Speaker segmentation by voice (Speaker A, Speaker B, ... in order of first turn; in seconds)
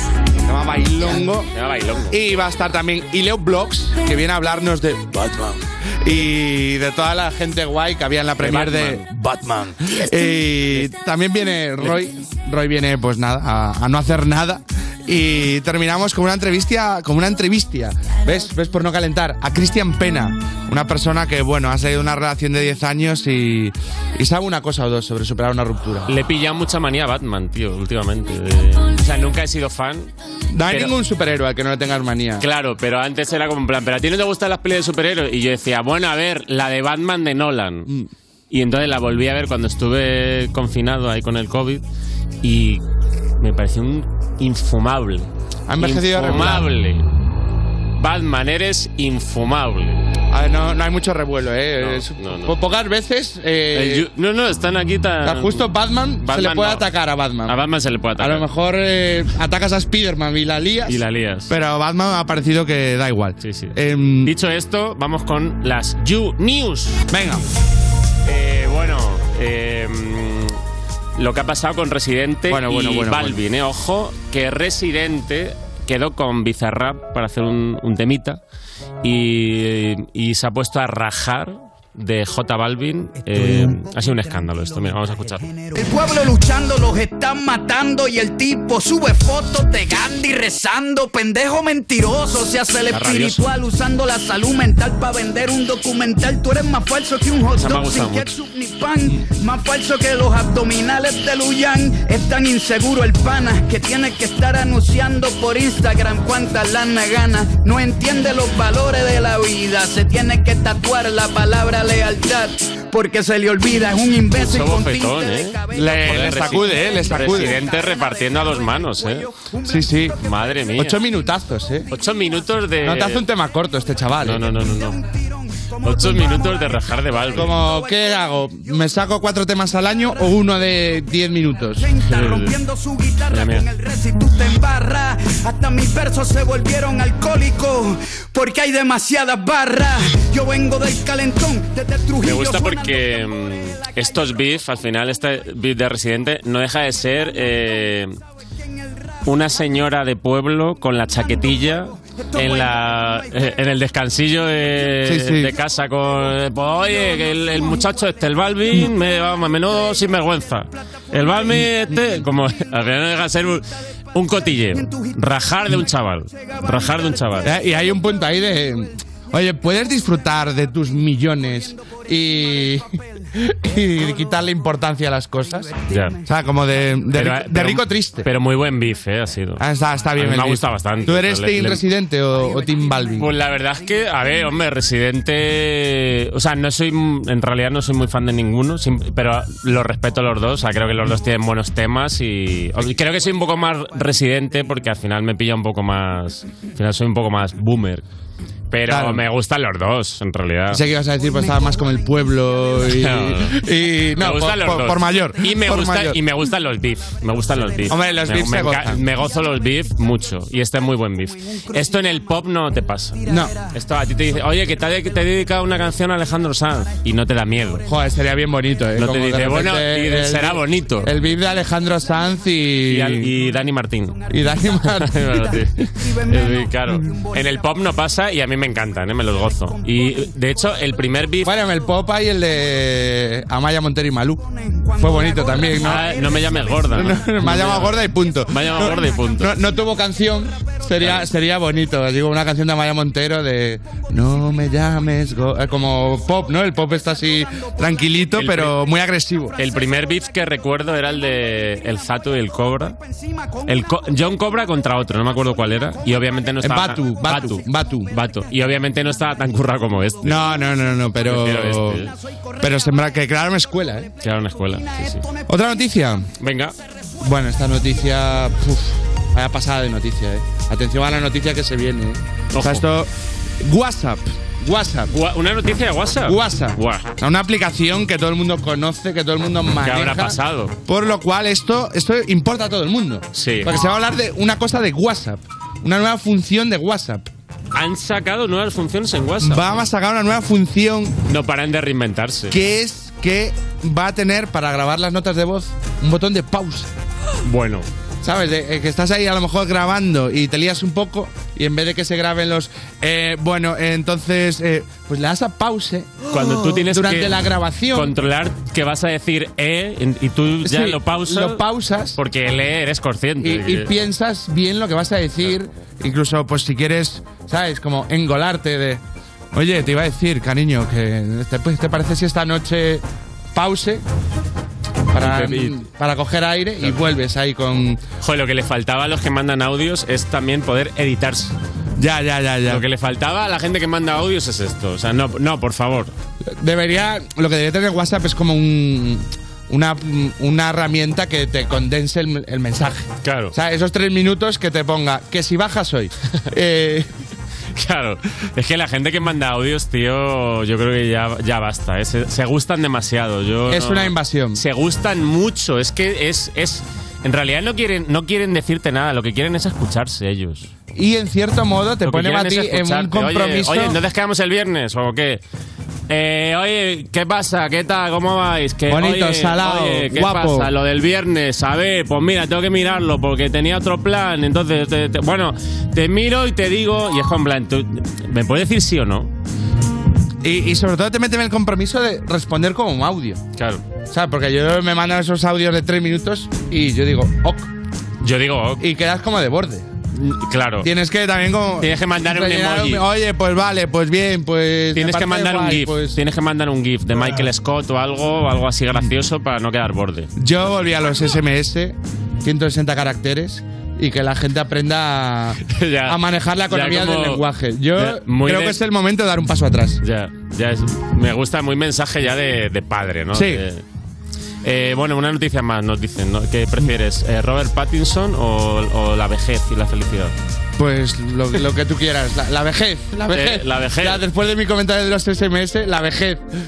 Speaker A: 0.4-1.5, 2.1-26.1, 30.5-32.4, 45.7-46.7, 50.3-54.0, 55.2-57.5, 58.2-64.3, 67.1-67.4, 72.5-73.4, 115.7-117.6, 119.6-120.2, 120.8-121.9, 122.8-124.4, 127.3-131.9, 155.0-155.5, 167.4-178.3, 179.6-183.3, 198.9-199.2, 200.7-206.2, 207.9-209.0, 213.2-213.5, 217.8-223.3, 224.3-225.3, 231.4-234.4, 235.0-236.1, 236.9-249.5, 256.6-258.1, 260.2-262.0, 262.6-264.1, 265.5-266.3, 267.2-275.1, 276.2-287.3, 289.4-291.2, 292.5-296.9, 298.2-308.1, 310.6-312.2, 313.4-319.0, 319.5-324.0, 325.1-328.0, 332.0-332.8, 336.5-347.1, 353.7-354.6, 360.9-364.0, 368.9-370.7, 380.4-383.4, 384.1-387.7, 388.8-389.9, 390.8-396.2, 400.4-410.0, 413.3-413.6, 420.8-426.4
Speaker B: 1.0-2.2, 8.4-9.1, 26.1-30.1, 30.7-30.9, 32.4-37.9, 38.5-41.8, 42.4-42.8, 43.4-47.1, 48.0-50.1, 51.8-52.5, 53.7-56.9, 57.5-58.5, 60.9-61.5, 63.4-67.0, 68.2-70.6, 71.2-78.4, 79.0-85.5, 92.9-93.4, 97.5-98.3, 114.3-119.3, 120.2-121.0, 121.9-123.2, 124.2-125.0, 125.8-127.6, 132.0-132.5, 133.3-133.7, 142.2-148.2, 149.2-167.5, 175.9-176.2, 177.1-179.6, 180.2-181.8, 183.2-198.0, 198.7-200.8, 202.9-203.6, 204.2-217.9, 218.9-221.1, 222.8-224.2, 224.8-231.6, 235.8-239.5, 241.0-241.3, 248.3-248.8, 249.6-253.0, 253.7-260.4, 261.2-262.1, 264.2-265.2, 266.4-266.7, 272.5-272.8, 275.1-277.1, 279.8-280.8, 283.3-283.7, 287.7-289.9, 291.3-292.6, 297.4-297.9, 306.3-311.6, 312.1-313.9, 325.1-325.8, 328.2-331.5, 332.6-336.1, 343.2-343.5, 347.7-360.7, 362.0-365.4, 366.1-379.3, 383.6-383.8, 388.2-388.9, 390.1-390.9, 391.8-393.0, 394.9-400.3, 405.6-408.8, 410.0-413.8, 414.6-420.3, 423.3-424.2
Speaker C: 85.6-120.6, 124.5-126.8, 127.4-128.7, 131.8-143.2, 152.1-152.8, 164.7-165.1, 166.3-167.1, 173.9-174.2, 175.6-176.2, 182.4-183.1, 207.6-208.0, 211.5-212.2, 213.2-213.6, 224.2-224.7, 225.3-227.4, 229.6-230.3, 234.5-237.1, 253.1-253.7, 262.2-263.1, 264.9-265.4